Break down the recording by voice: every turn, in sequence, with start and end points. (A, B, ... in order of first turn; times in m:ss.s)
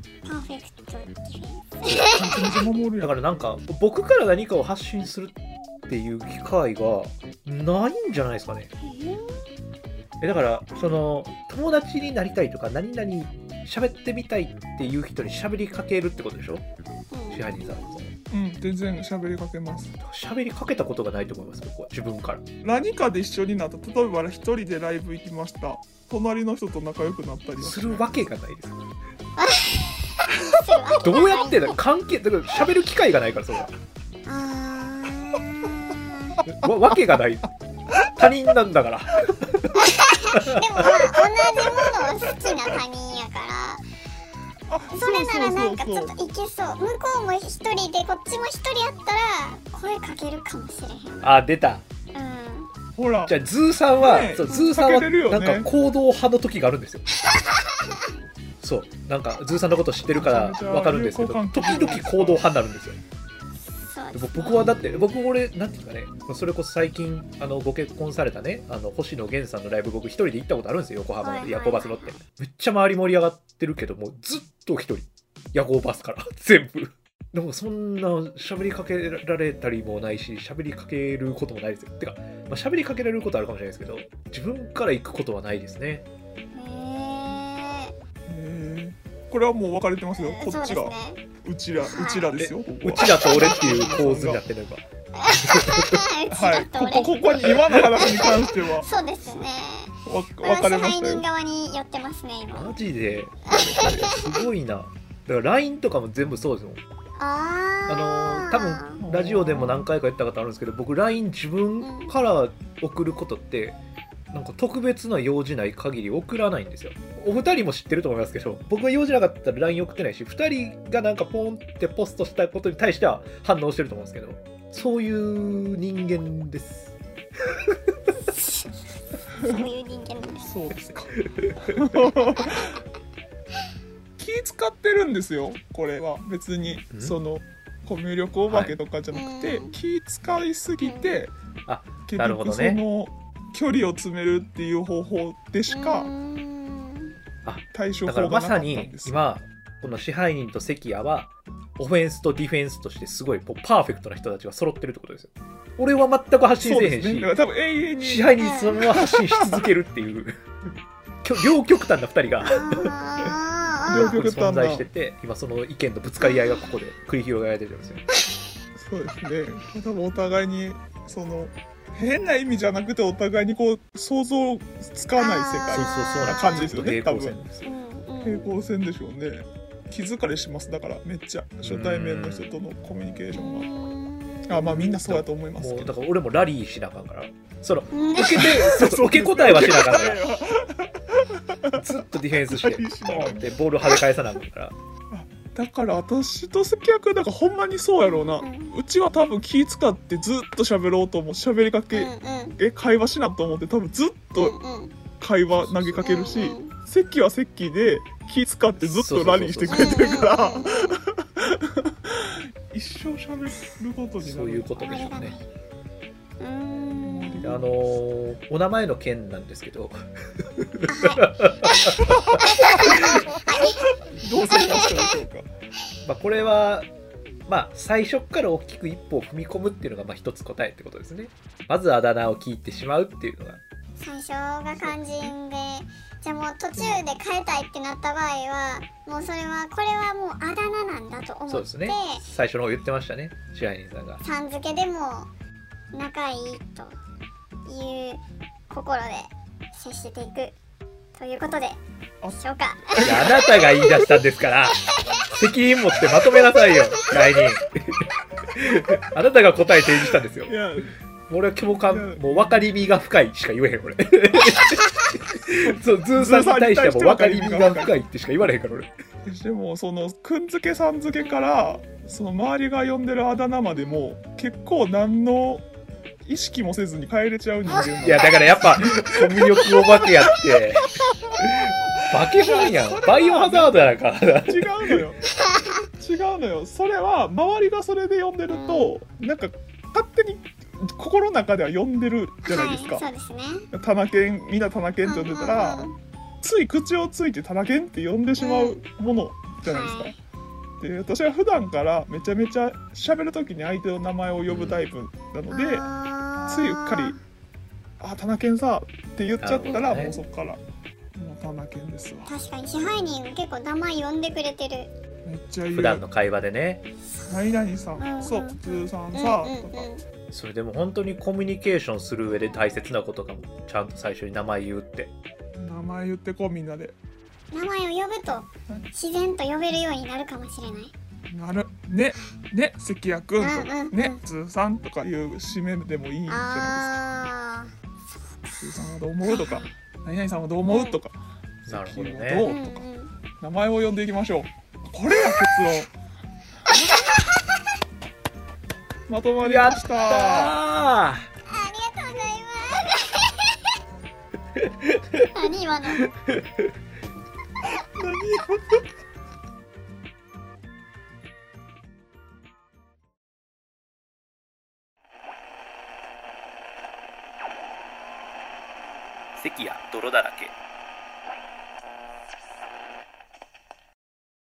0:00.2-0:02.4 A
0:01.9-0:02.2 B
0:02.0-0:03.2 C
0:03.0-0:05.3 B
0:05.9-0:08.7 B
0:08.8-0:09.5 A
0:10.2-0:16.6 B
0:17.1-0:17.5 A
0:17.3-0:18.1 B
0:18.3-0:19.9 C
0:20.0-0:22.4 B
0:22.6-0:28.2 C
0:27.6-0:28.8 B
0:29.4-0:31.8 A
0:31.0-0:33.7 B
0:34.2-0:36.4 A
0:36.5-0:37.5 B
0:38.2-0:39.8 B
0:39.7-0:43.8 A
0:40.5-0:41.0 B
0:44.7-0:46.1 C
0:44.9-0:51.3 A
0:51.2-0:51.8 B
0:52.1-0:52.7 A
0:52.9-0:53.3 C
0:53.2-0:57.0 B
0:54.0-0:55.7 C
0:54.5-0:54.7 A
0:58.6-1:03.0 B
1:00.1-1:02.5 C
1:03.6-1:04.9 A
1:04.1-1:26.0 B
1:04.5-1:05.0 C
1:11.2-1:12.2 A
1:26.5-1:27.9 A
1:28.3-1:34.4 C
1:30.2-1:31.2 A
1:31.9-1:32.3 A
1:32.4-1:34.8 B
1:35.2-1:42.7 A
1:35.6-1:35.9 B
1:36.3-1:39.4 C
1:40.0-1:41.2 C
1:42.5-1:46.8 B
1:43.5-1:44.2 A
1:47.2-1:49.0 A
1:47.9-1:53.8 B
1:49.0-1:49.9 C
1:51.8-1:52.1 A
1:54.3-2:06.9 B
2:07.4-2:07.8 B
2:08.3-2:08.8 A
2:09.4-2:10.5 A
2:09.4-2:09.7 C
2:10.4-2:12.8 C
2:11.3-2:11.6 B
2:12.4-2:12.7 A
2:14.2-2:21.3 C
2:18.5-2:18.8 B
2:19.1-2:19.7 A
2:20.8-2:21.1 A
2:21.7-2:22.8 B
2:22.0-2:26.1 C
2:25.7-2:27.1 A
2:27.4-2:37.3 B
2:27.7-2:29.2 C
2:36.6-2:39.6 C
2:38.0-2:40.4 B
2:38.4-2:38.8 A
2:41.2-2:42.9 B
2:42.4-2:44.2 A
2:43.9-2:44.9 C
2:43.9-2:48.0 B
2:46.2-2:46.7 A
2:48.8-2:57.4 C
2:55.2-2:56.7 A
2:55.7-2:57.7 B
2:57.6-2:58.4 A
2:58.2-3:03.7 C
3:01.6-3:02.5 B
3:03.3-3:04.9 A
3:04.5-3:06.0 C
3:05.0-3:10.2 B
3:07.9-3:08.8 A
3:08.3-3:11.8 C
3:11.8-3:14.7 B
3:12.5-3:13.5 C
3:15.1-3:24.6 C
3:18.0-3:18.7 A
3:21.9-3:22.6 A
3:24.4-3:24.9 A
3:25.2-3:34.9 C
3:25.5-3:26.1 B
3:26.0-3:26.7 A
3:28.8-3:30.0 B
3:29.7-3:31.0 A
3:34.2-3:35.4 B
3:34.8-3:35.4 A
3:36.4-3:37.5 A
3:37.0-3:37.7 C
3:37.4-3:43.2 B
3:40.9-3:41.2 A
3:42.1-3:45.5 C
3:42.3-3:43.9 A
3:44.5-3:45.2 A
3:46.0-3:46.9 B
3:47.5-3:53.6 B
3:54.0-4:02.2 A
4:01.5-4:04.2 B
4:04.2-4:05.3 A
4:05.9-4:06.9 A
4:07.6-4:10.5 A
4:11.2-4:11.8 A
4:12.2-4:13.6 C
4:12.3-4:13.5 A
4:13.0-4:14.8 B
4:15.3-4:20.5 B
4:20.5-4:20.9 C
4:21.3-4:28.9 B
4:21.8-4:22.7 C
4:25.5-4:28.0 C
4:29.2-4:35.6 C
4:36.2-4:41.1 C
4:37.6-4:38.3 A
4:38.0-4:45.0 B
4:42.0-4:43.9 C
4:44.4-4:45.2 C
4:45.4-4:45.8 A
4:46.0-4:53.0 C
4:48.5-4:48.9 A
4:52.4-4:53.7 A
4:53.7-4:55.9 C
4:55.0-4:55.9 A
4:56.4-5:00.1 C
4:58.4-4:58.8 A
4:59.6-5:00.2 A
5:00.8-5:05.9 C
5:04.5-5:04.8 B
5:05.5-5:07.2 A
5:06.4-5:07.2 C
5:08.0-5:10.6 C
5:09.4-5:10.2 B
5:09.6-5:10.2 A
5:11.2-5:12.3 C
5:12.2-5:14.9 A
5:15.2-5:16.0 C
5:15.7-5:16.8 B
5:17.2-5:19.9 C
5:18.0-5:20.0 A
5:20.3-5:25.1 B
5:25.6-5:27.0 C
5:27.5-5:30.9 A
5:31.3-5:36.9 C
5:33.4-5:34.2 A
5:36.3-5:38.6 A
5:38.6-5:42.8 C
5:39.2-5:39.7 A
5:40.6-5:41.0 A
5:41.7-5:42.5 B
5:42.4-5:43.1 A
5:43.4-5:45.9 C
5:49.1-5:50.6 C
5:49.4-5:51.3 B
5:51.4-5:53.6 A
5:54.6-5:55.4 B
5:55.3-5:56.1 A
5:56.0-5:56.7 B
5:58.0-5:58.8 C
6:09.4-6:10.5 B